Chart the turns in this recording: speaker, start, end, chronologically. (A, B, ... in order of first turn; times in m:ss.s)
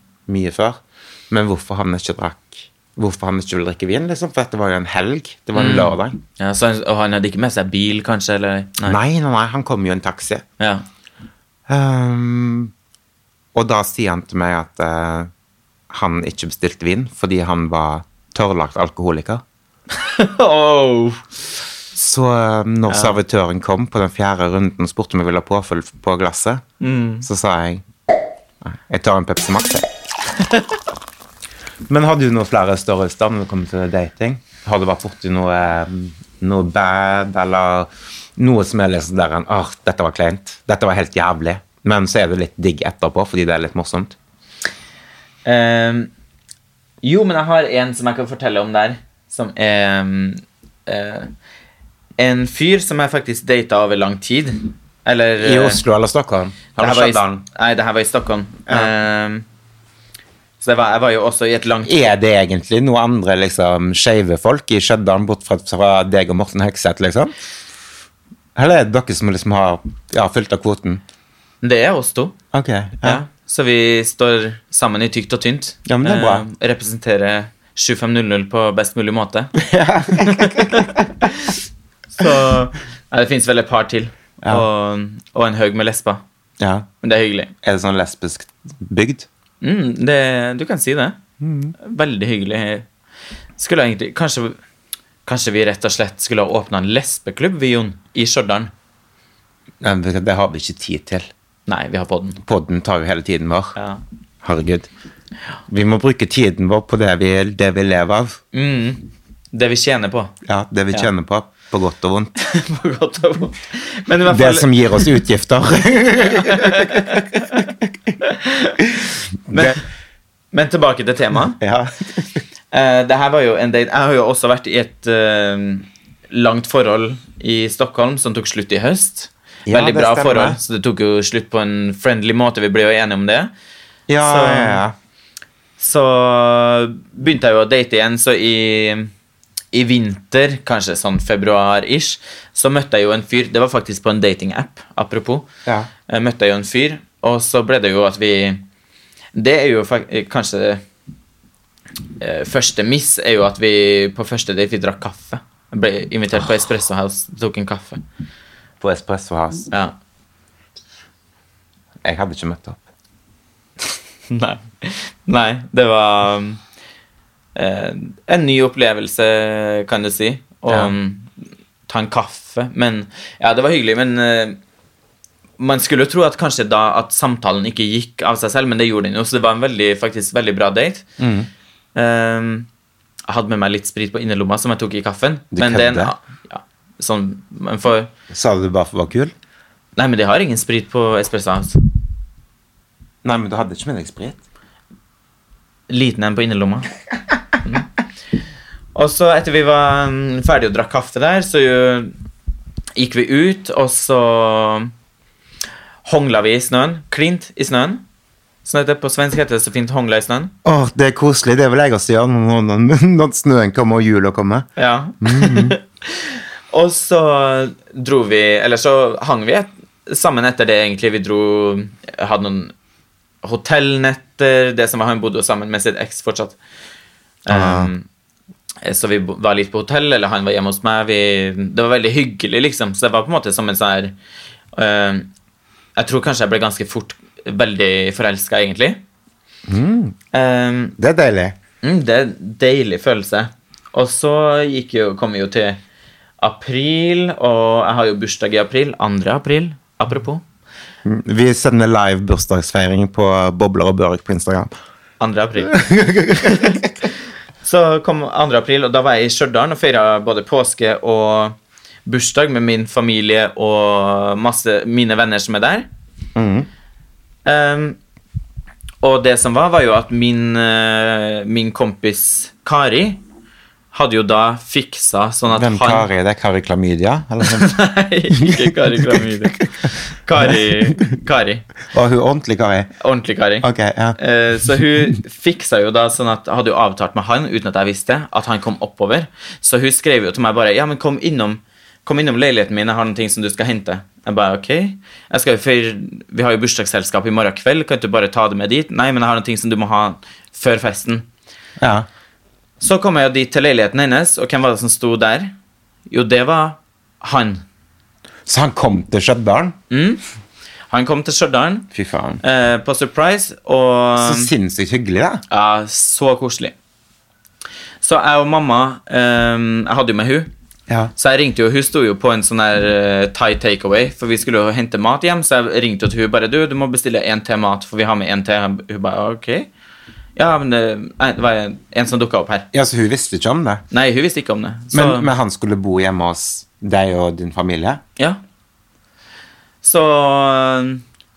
0:00.3-0:06.2 A
0:05.6-0:09.0 B
0:08.8-0:10.4 A
0:10.6-0:10.8 B
0:11.7-0:12.7 A
0:13.5-0:15.3 A
0:15.9-0:19.4 A
0:19.9-0:21.3 B
0:22.0-0:26.6 A
0:22.9-0:23.2 B
0:26.8-0:27.3 B
0:27.2-0:27.8 A
0:28.6-0:29.9 A
0:30.4-0:30.7 B
0:31.9-0:44.2 A
0:45.4-0:46.1 B
0:47.0-0:51.3 B
0:52.2-0:55.8 B
0:55.4-0:57.4 A
0:56.8-0:59.4 B
1:00.6-1:02.1 B
1:01.8-1:07.3 A
1:08.6-1:11.0 A
1:11.6-1:12.4 B
1:12.5-1:13.2 A
1:13.0-1:19.6 B
1:15.9-1:16.4 A
1:19.6-1:21.3 A
1:20.1-1:21.6 B
1:22.1-1:26.2 B
1:26.6-1:26.9 A
1:27.0-1:27.5 B
1:27.6-1:29.3 A
1:29.6-1:31.2 B
1:31.4-1:31.7 A
1:31.8-1:32.9 B
1:33.6-1:34.6 B
1:35.3-1:38.7 B
1:39.8-1:41.3 A
1:41.7-1:42.4 B
1:42.4-1:43.8 A
1:43.8-1:44.0 B
1:44.4-1:44.9 A
1:45.7-1:48.4 A
1:48.5-1:50.3 B
1:50.4-1:52.3 A
1:52.4-1:55.1 B
1:54.3-1:58.2 A
1:56.2-1:57.7 B
1:58.2-1:58.8 B
1:59.0-1:59.8 A
1:59.5-1:59.8 B
2:00.5-2:01.6 B
2:01.6-2:02.4 A
2:02.7-2:13.5 B
2:09.7-2:10.6 A
2:14.1-2:15.0 A
2:14.2-2:14.8 B
2:15.8-2:19.1 B
2:19.7-2:25.5 B
2:26.1-2:28.6 B
2:29.3-2:30.8 B
2:32.2-2:38.0 B
2:38.8-2:39.7 A
2:42.0-2:42.8 A
2:44.3-2:46.6 B
2:47.6-2:51.3 B
2:50.7-2:50.9 A
2:51.9-2:54.6 B
2:55.6-3:01.1 B
3:01.2-3:01.5 A
3:02.0-3:02.7 B
3:03.3-3:08.1 B
3:05.5-3:06.2 A
3:08.3-3:09.3 A
3:10.0-3:11.8 B
3:13.2-3:14.4 A
3:15.9-3:16.9 B
3:19.0-3:22.1 B
3:23.0-3:24.9 B
3:26.0-3:28.0 B
3:28.6-3:30.5 B
3:30.6-3:34.7 A
3:34.8-3:42.7 B
3:35.2-3:35.8 A
3:43.4-3:46.6 B
3:47.5-3:48.1 B
3:47.5-3:47.9 A
3:48.8-3:54.2 B
3:54.7-3:55.3 B
3:56.0-3:59.0 B
3:59.7-4:00.2 A
4:00.3-4:01.0 B
4:01.0-4:01.6 A
4:01.8-4:05.8 B
4:06.4-4:10.4 B
4:11.0-4:14.7 A
4:15.2-4:15.8 B
4:15.6-4:16.9 A
4:16.3-4:25.9 B
4:26.4-4:26.7 A
4:27.4-4:28.0 B
4:29.0-4:33.2 B
4:33.9-4:36.1 B
4:35.5-4:37.8 A
4:37.5-4:41.7 B
4:38.3-4:39.9 A
4:40.4-4:41.0 A
4:41.9-4:42.9 A
4:43.0-4:43.7 B
4:43.6-4:44.2 A
4:44.2-5:01.3 B
5:01.8-5:02.1 A
5:02.8-5:05.5 B
5:06.1-5:07.6 B
5:08.5-5:09.8 A
5:09.9-5:10.2 B
5:10.9-5:11.9 B
5:11.9-5:12.4 A
5:12.4-5:14.5 B
5:14.2-5:15.4 A
5:15.5-5:16.8 B
5:18.0-5:20.5 B
5:21.2-5:29.7 B
5:30.4-5:32.7 B
5:32.7-5:33.8 A
5:33.9-5:35.3 B
5:34.9-5:38.0 A
5:39.8-5:41.0 B